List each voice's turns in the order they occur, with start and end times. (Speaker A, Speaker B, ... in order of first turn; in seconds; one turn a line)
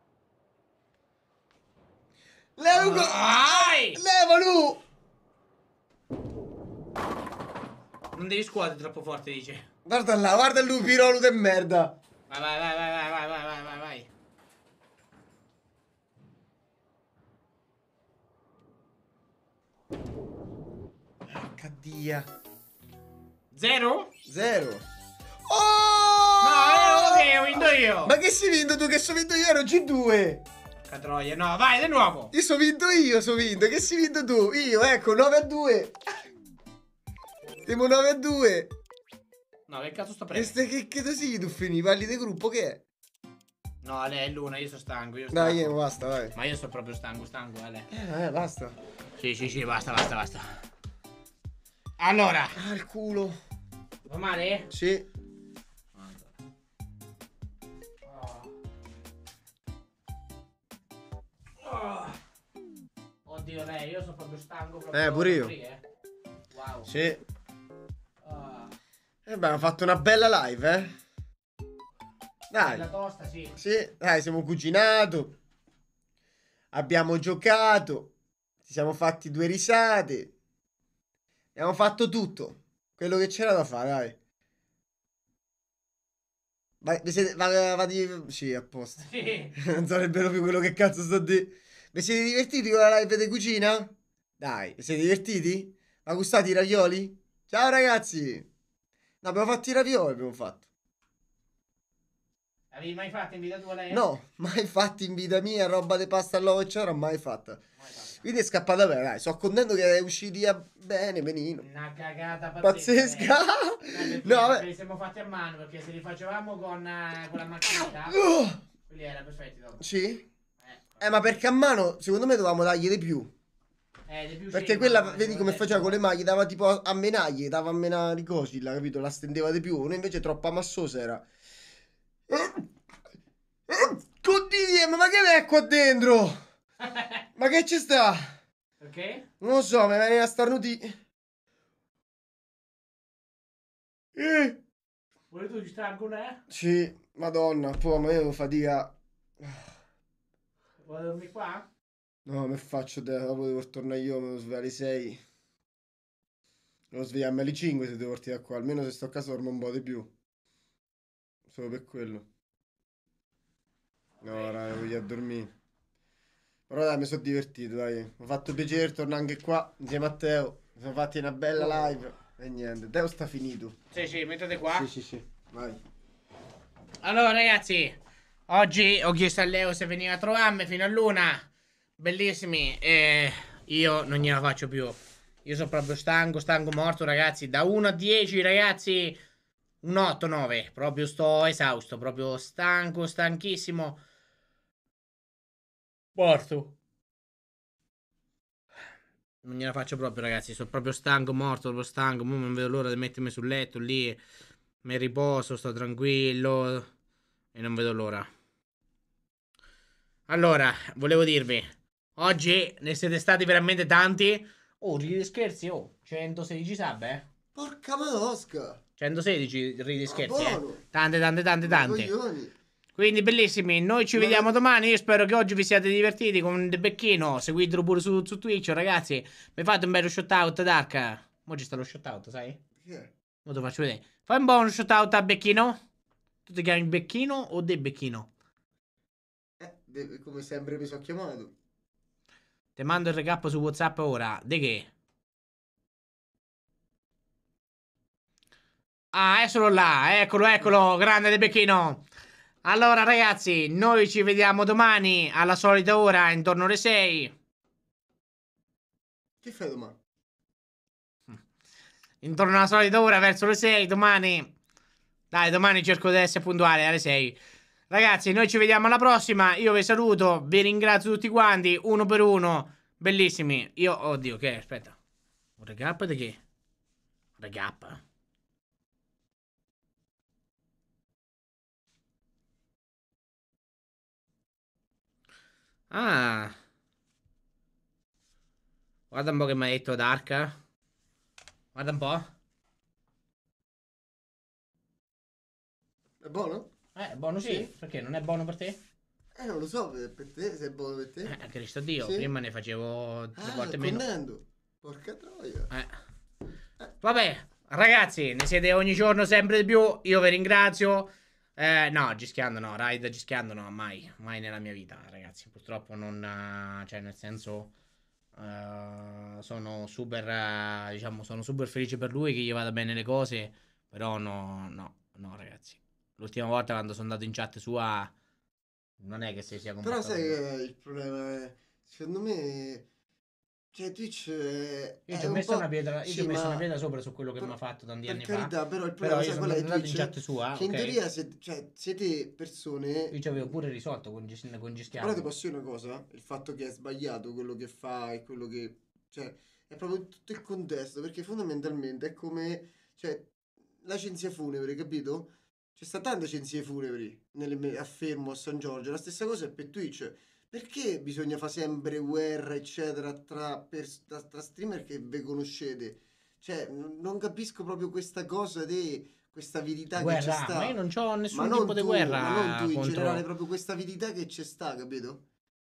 Speaker A: 2.6-4.8
Speaker B: 2.7-4.0
Speaker B: 8.1-9.6
Speaker A: 9.8-11.9
Speaker B: 12.3-14.1
Speaker A: 21.3-22.3
Speaker B: 23.5-24.1
Speaker A: 24.2-24.9
Speaker A: 25.5-30.4
Speaker B: 26.4-28.1
Speaker B: 30.9-32.3
Speaker A: 32.3-36.0
Speaker A: 37.6-38.7
Speaker B: 39.7-40.6
Speaker A: 40.3-42.8
Speaker B: 43.8-45.8
Speaker A: 45.3-46.3
Speaker B: 46.3-47.9
Speaker A: 47.9-48.8
Speaker B: 49.2-50.6
Speaker B: 52.0-52.6
Speaker A: 52.5-53.4
Speaker B: 54.0-54.7
Speaker A: 54.7-55.0
Speaker B: 56.0-56.3
Speaker B: 58.0-58.5
Speaker B: 61.6-62.2
Speaker B: 63.2-65.8
Speaker A: 64.9-65.5
Speaker B: 66.5-66.9
Speaker A: 66.8-67.2
Speaker B: 68.2-68.7
Speaker A: 69.2-71.0
Speaker A: 72.5-72.8
Speaker B: 72.5-73.5
Speaker A: 73.5-75.3
Speaker A: 76.7-78.1
Speaker A: 78.6-80.3
Speaker A: 81.5-84.2
Speaker A: 86.8-98.5
Speaker B: 89.0-89.5
Speaker A: 99.2-100.6
Speaker B: 102.7-104.0
Speaker A: 103.9-107.6
Speaker B: 107.8-108.2
Speaker A: 108.2-111.7
Speaker B: 111.6-113.3
Speaker A: 112.6-114.7
Speaker B: 113.9-118.2
Speaker A: 117.6-118.6
Speaker B: 118.9-119.8
Speaker A: 119.8-120.2
Speaker B: 120.6-121.1
Speaker A: 121.0-123.3
Speaker B: 124.1-126.0
Speaker A: 124.5-131.2
Speaker A: 132.3-132.7
Speaker A: 133.7-136.4
Speaker B: 136.8-137.2
Speaker A: 137.3-138.4
Speaker B: 138.8-139.2
Speaker A: 139.4-141.0
Speaker A: 144.1-144.6
Speaker B: 145.3-146.4
Speaker A: 146.5-149.7
Speaker B: 150.8-151.7
Speaker A: 152.2-155.2
Speaker A: 156.9-160.1
Speaker A: 161.5-162.3
Speaker A: 164.2-165.5
Speaker B: 164.3-164.5
Speaker A: 166.7-173.8
Speaker B: 173.9-174.9
Speaker A: 174.7-175.8
Speaker B: 177.0-181.5
Speaker B: 182.0-189.2
Speaker B: 189.8-194.0
Speaker B: 196.2-196.7
Speaker B: 199.4-204.2
Speaker B: 204.8-206.9
Speaker B: 207.5-208.3
Speaker B: 210.3-217.2
Speaker A: 217.5-218.8
Speaker B: 219.0-222.1
Speaker A: 220.1-220.8
Speaker A: 221.6-222.5
Speaker B: 222.9-232.6
Speaker A: 224.1-224.5
Speaker A: 232.8-233.1
Speaker B: 233.4-235.8
Speaker B: 236.4-238.3
Speaker A: 239.6-241.5
Speaker B: 242.8-244.9
Speaker B: 249.1-252.0
Speaker B: 252.6-257.3
Speaker A: 259.4-260.0
Speaker B: 262.2-264.5
Speaker B: 265.3-267.4
Speaker B: 267.9-275.0
Speaker B: 275.6-276.4
Speaker B: 277.4-278.0
Speaker B: 285.9-286.5
Speaker B: 289.1-290.5
Speaker B: 291.7-292.2
Speaker A: 296.2-296.7
Speaker B: 296.9-298.8
Speaker A: 297.4-297.7
Speaker A: 299.4-301.4
Speaker B: 301.2-304.0
Speaker A: 302.0-302.3
Speaker A: 303.4-305.7
Speaker B: 307.0-317.7
Speaker B: 318.4-328.1
Speaker B: 329.0-330.4
Speaker A: 329.8-332.9
Speaker A: 333.7-336.7
Speaker B: 335.1-341.0
Speaker A: 338.1-343.2
Speaker B: 343.1-345.3
Speaker A: 345.0-353.3
Speaker A: 353.8-370.8
Speaker B: 369.9-373.2
Speaker A: 371.3-375.2